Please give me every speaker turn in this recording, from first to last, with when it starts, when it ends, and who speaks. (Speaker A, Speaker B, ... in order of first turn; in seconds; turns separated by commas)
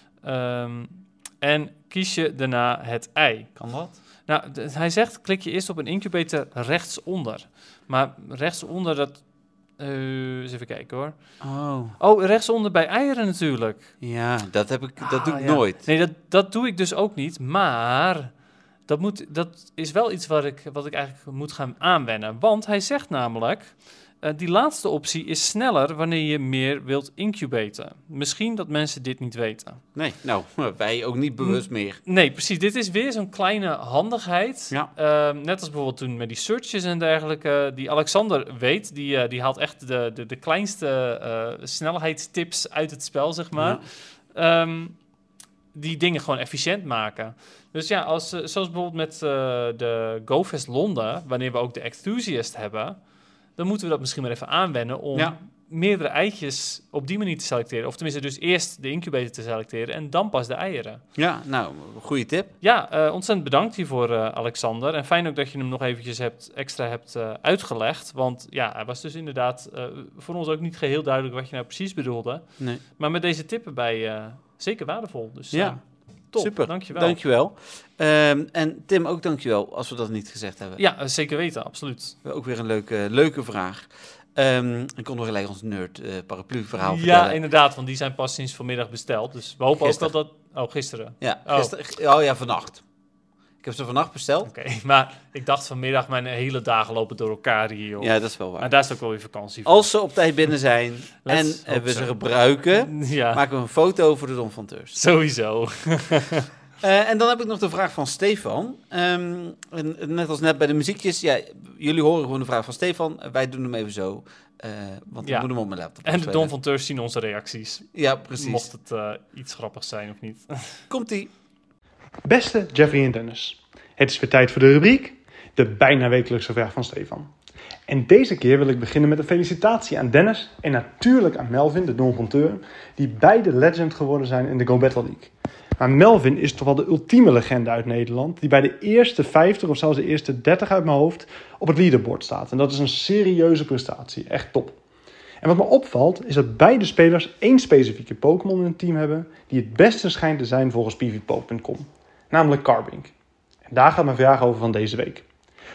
Speaker A: 0.2-3.5, Speaker B: 3.6-3.9, Speaker A: 4.3-9.2, Speaker A: 9.8-11.2, Speaker B: 11.4-11.9, Speaker A: 12.0-13.9, Speaker B: 14.0-15.8, Speaker A: 15.0-18.3, Speaker A: 18.9-29.8, Speaker B: 29.9-32.0, Speaker A: 31.4-45.0, Speaker B: 43.5-43.8, Speaker A: 45.7-53.0, Speaker A: 53.6-61.0, Speaker B: 61.1-62.5, Speaker A: 62.6-72.4, Speaker A: 73.0-75.8, Speaker B: 75.5-75.8, Speaker A: 76.3-77.2, Speaker B: 76.3-80.8, Speaker A: 80.8-82.2, Speaker B: 82.2-87.4, Speaker A: 86.8-91.7, Speaker B: 89.8-90.1, Speaker B: 91.2-92.8, Speaker B: 93.6-94.5, Speaker A: 94.5-99.9, Speaker B: 98.0-98.7, Speaker B: 99.6-105.0, Speaker A: 101.2-102.2, Speaker A: 102.7-103.4, Speaker A: 104.9-106.5, Speaker B: 106.8-116.5, Speaker A: 115.2-115.5, Speaker A: 116.0-117.9, Speaker B: 117.9-118.7, Speaker A: 118.4-120.8, Speaker B: 120.9-121.3, Speaker C: 122.2-127.3, Speaker C: 127.9-144.8, Speaker C: 145.4-153.1, Speaker C: 153.7-155.2